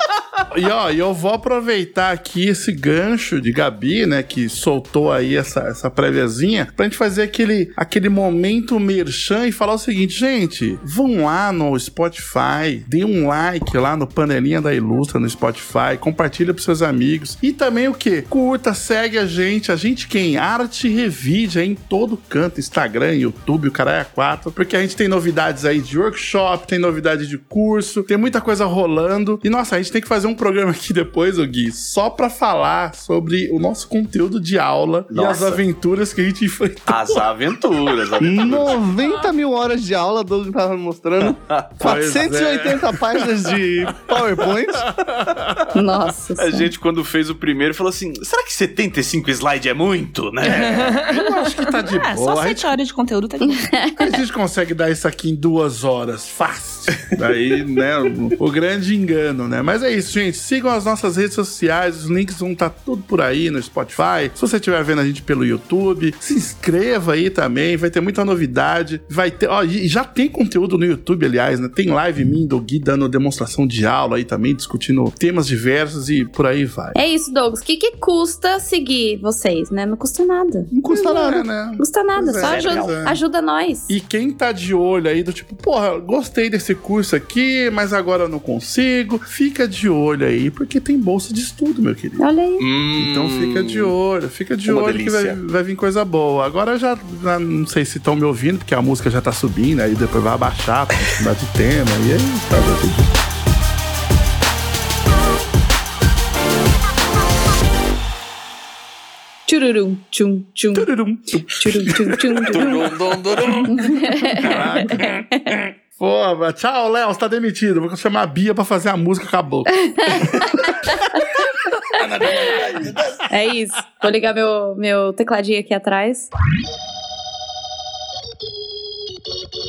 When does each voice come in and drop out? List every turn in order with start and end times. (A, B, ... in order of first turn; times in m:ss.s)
0:00.5-0:37.2 A
0:35.1-0:35.6 B
0:36.9-0:38.8 B
0:38.2-0:44.9 C
0:41.2-0:42.0 B
0:41.8-0:43.0 A
0:44.8-0:45.8 A
0:45.7-0:46.7 D
0:46.4-0:51.0 B
0:50.5-0:53.7 E
0:50.5-0:52.7 A
0:53.4-0:54.2 D
0:54.0-1:17.0 A
1:16.9-1:23.9 D
1:20.7-1:21.4 C
1:20.9-1:23.2 A
1:22.4-1:23.1 B
1:23.9-1:32.3 A
1:32.2-1:32.6 D
1:32.6-1:33.9 B
1:33.0-1:43.2 A
1:34.6-1:35.4 B
1:49.4-1:50.9 D
1:50.7-2:00.4 A
1:51.5-1:53.0 D
1:52.5-1:53.7 B
1:53.6-1:55.6 D
1:59.7-2:01.4 D
2:01.9-2:03.0 A
2:02.0-2:02.6 D
2:02.0-2:03.2 B
2:03.3-2:06.3 D